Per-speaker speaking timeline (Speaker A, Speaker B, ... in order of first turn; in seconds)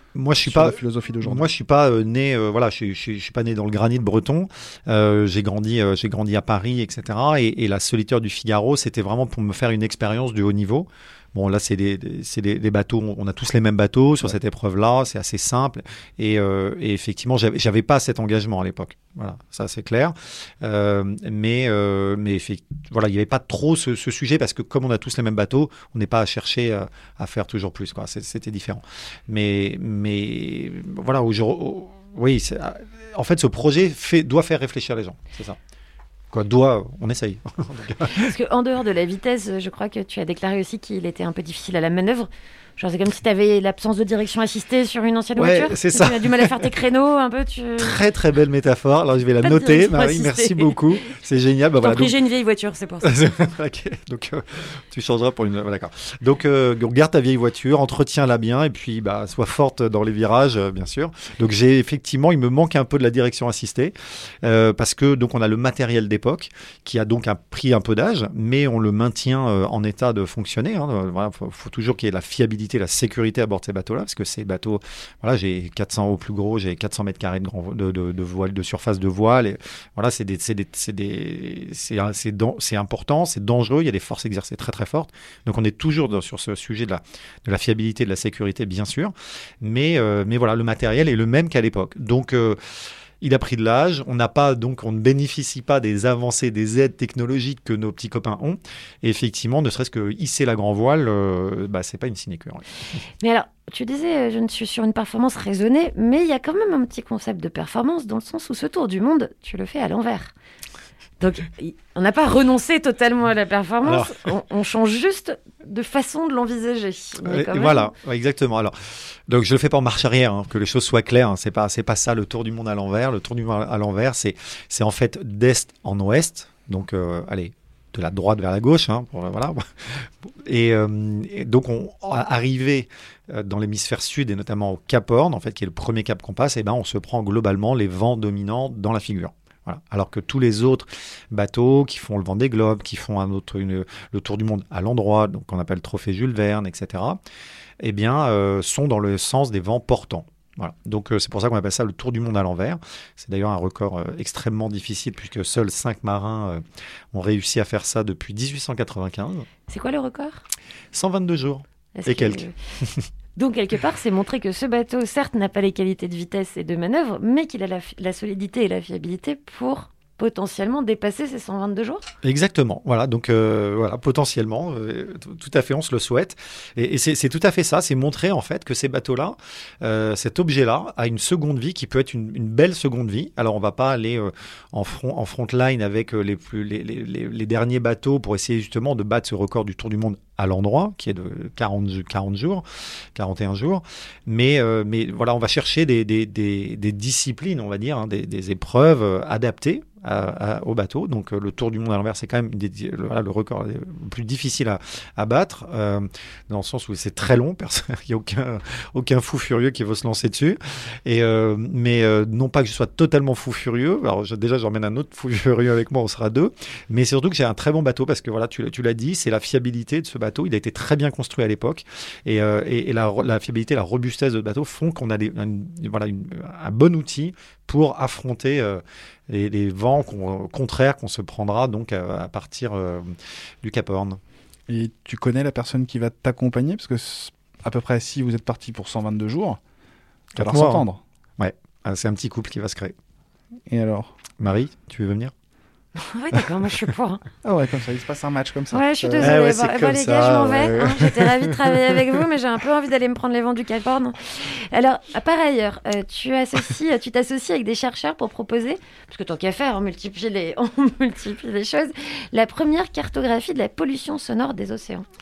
Speaker A: 0.1-35.6, 36.3-38.3, 45.4-46.7, 47.8-52.1, 53.0-92.6, 93.2-102.6, 113.8-114.1, 117.2-118.7, 119.3-147.2, 147.8-156.6, 157.1-159.4, 160.9-163.0, 172.2-192.6, 193.1-234.2, 240.4-240.8, 241.4-242.9, 244.4-245.3, 249.2-252.2
Speaker B: 0.4-1.5, 234.7-239.6, 240.3-241.0, 243.7-244.1, 247.4-249.3
Speaker C: 38.1-48.0, 49.4-50.8, 51.8-53.1, 103.2-110.3, 111.2-117.9, 159.7-160.4, 161.9-162.5, 163.3-172.1, 246.0-247.2, 248.7-265.1